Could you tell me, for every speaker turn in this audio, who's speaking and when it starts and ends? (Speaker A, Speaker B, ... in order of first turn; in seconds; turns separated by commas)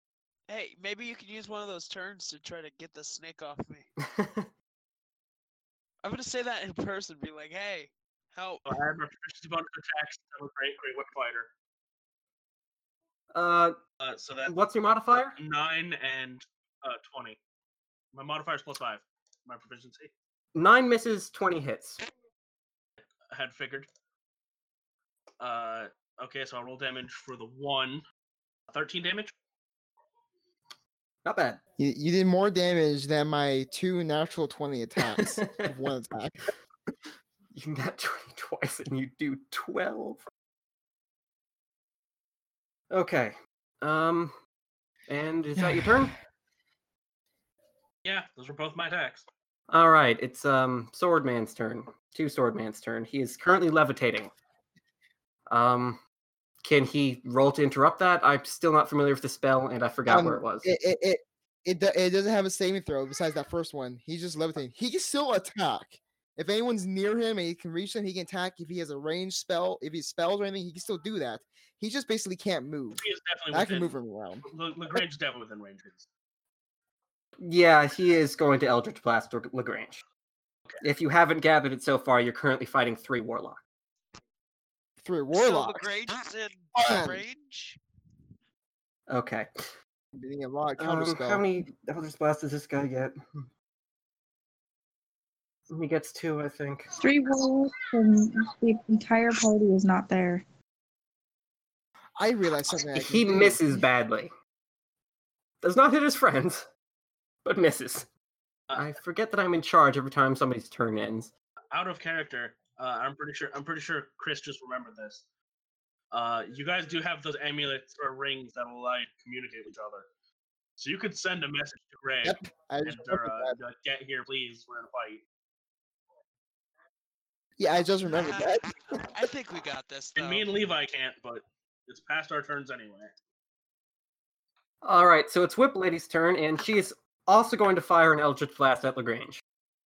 Speaker A: 0.5-3.9, Speaker B: 4.0-4.5, Speaker A: 6.0-8.7, Speaker C: 8.7-11.5, Speaker B: 13.3-13.8, Speaker C: 14.0-14.5, Speaker B: 14.5-15.4, Speaker C: 15.4-17.4, Speaker C: 18.1-20.1, Speaker B: 20.6-22.0, Speaker C: 23.3-23.9, Speaker C: 25.4-28.0, Speaker C: 28.7-29.3, Speaker B: 31.2-31.6, Speaker D: 31.8-36.5, Speaker B: 35.0-35.7, Speaker B: 37.5-40.2, Speaker B: 42.9-44.3, Speaker B: 45.1-46.1, Speaker C: 48.0-49.3, Speaker B: 49.7-54.4, Speaker B: 55.5-56.0, Speaker B: 56.6-60.7, Speaker D: 60.1-75.0, Speaker C: 73.0-76.1, Speaker B: 77.4-80.0, Speaker B: 80.8-83.6, Speaker D: 85.0-85.9, Speaker A: 85.3-87.8, Speaker D: 86.8-87.2, Speaker B: 89.1-89.5, Speaker D: 90.2-91.5, Speaker B: 90.8-93.5, Speaker B: 95.7-96.9, Speaker E: 97.0-100.4, Speaker D: 102.2-103.8, Speaker B: 102.8-104.3, Speaker B: 105.6-106.7, Speaker B: 107.5-108.1, Speaker B: 108.7-111.3, Speaker C: 111.7-115.2, Speaker C: 116.1-120.1, Speaker C: 120.8-125.2, Speaker D: 122.2-123.6, Speaker D: 127.6-129.0, Speaker A: 128.1-130.6, Speaker C: 130.2-133.1, Speaker B: 134.8-139.4